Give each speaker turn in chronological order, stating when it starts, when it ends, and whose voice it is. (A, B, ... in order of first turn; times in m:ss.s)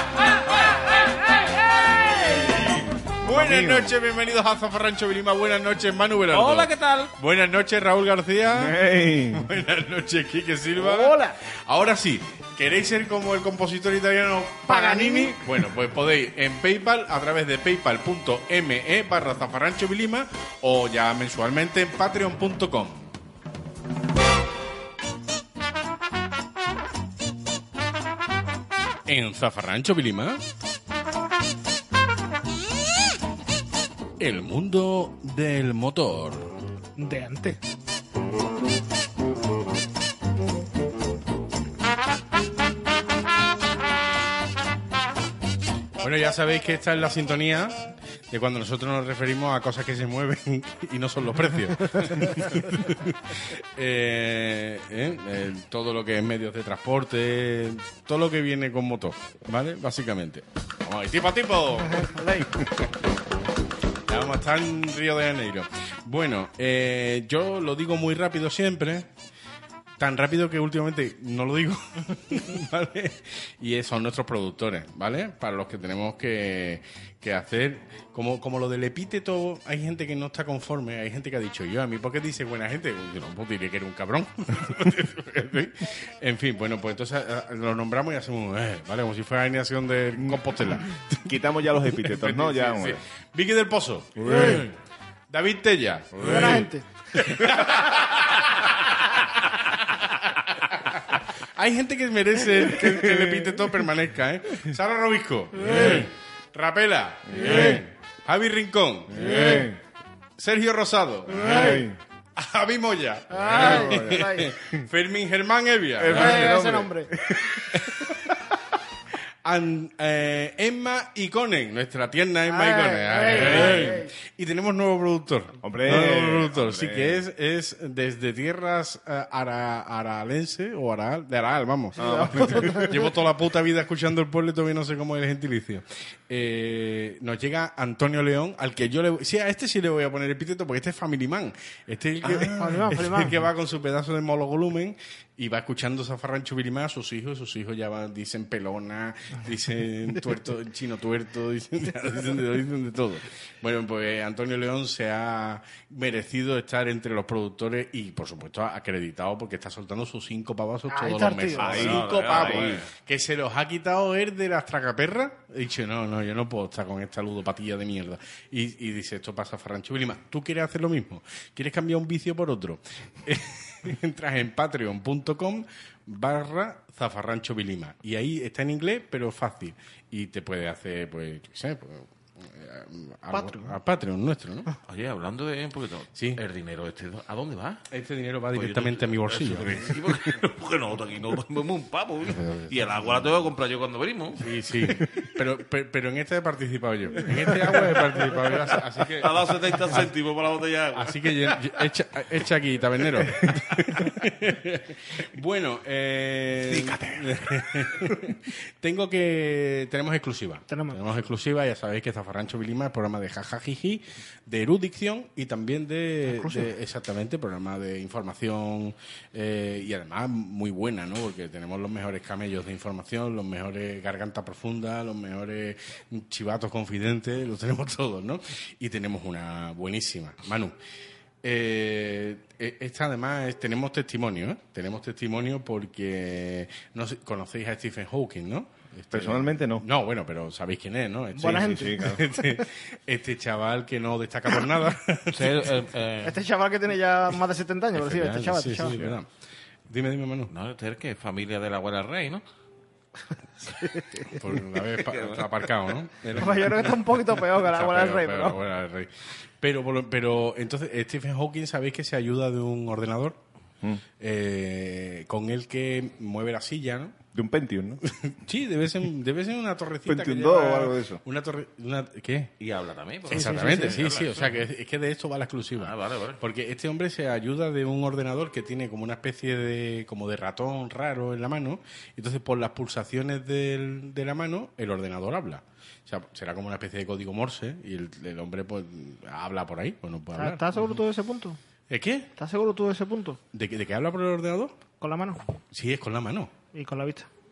0:02.2-0:23.1 A
0:03.2-0:03.9 B
0:06.3-0:07.1 C
0:08.5-0:09.5 B
0:10.8-0:11.4 D
0:14.7-0:15.4 D
0:29.1-0:30.4 A
0:34.2-0:36.5 A
0:37.0-0:37.6 D
0:46.0-1:02.9 A
1:01.9-1:02.6 D
1:04.1-1:09.1 A
1:10.0-1:34.7 A
1:30.2-1:30.4 B
1:31.2-1:33.0 B
1:34.2-1:34.7 B
1:34.2-1:34.6 D
1:35.3-1:38.7 A
1:36.2-1:36.6 B
1:36.2-1:36.9 D
1:40.9-1:49.7 A
1:42.7-1:43.7 B
1:45.6-1:46.0 D
1:47.3-1:47.8 B
1:47.4-1:47.8 D
1:49.1-1:49.8 B
1:49.2-1:49.7 D
1:50.4-1:51.8 A
1:51.3-1:52.0 B
1:51.4-1:51.8 D
1:52.4-1:56.5 A
1:53.3-1:54.5 D
1:53.4-1:54.8 B
1:56.0-1:58.2 B
1:56.1-1:57.1 D
1:57.7-1:58.0 A
1:59.4-3:04.7 A
2:02.4-2:04.1 D
2:03.3-2:03.8 B
2:05.6-2:07.2 B
2:12.0-2:12.9 D
2:12.0-2:13.1 B
2:22.3-2:23.3 D
2:40.9-2:41.8 D
2:41.6-2:42.8 B
2:41.6-2:42.8 C
3:03.3-3:03.8 D
3:04.9-3:07.8 C
3:07.9-3:10.3 A
3:08.5-3:14.4 C
3:12.2-3:13.3 A
3:14.4-3:20.1 A
3:19.2-3:21.6 C
3:20.9-3:50.8 A
3:26.6-3:28.1 B
3:30.7-3:31.0 D
3:36.2-3:36.7 D
3:51.4-4:05.7 A
3:59.1-3:59.8 B
4:01.3-4:02.0 D
4:01.4-4:02.3 B
4:05.3-4:06.4 C
4:06.2-4:09.0 D
4:08.0-4:09.3 A
4:09.9-4:10.5 A
4:10.5-4:12.4 C
4:13.8-4:14.4 D
4:14.2-4:23.4 A
4:15.0-4:15.7 C
4:16.3-4:18.6 D
4:24.2-4:27.2 A
4:27.3-4:28.0 B
4:28.0-4:32.5 A
4:30.0-4:31.2 B
4:32.6-4:34.6 C
4:33.3-4:34.0 D
4:33.3-4:50.9 A
4:35.8-4:36.4 C
4:50.4-4:51.6 D
4:51.9-4:52.3 A
4:52.4-4:53.4 D
4:53.5-4:54.8 A
4:55.0-4:55.4 D
4:55.7-4:56.5 A
4:56.7-4:57.3 D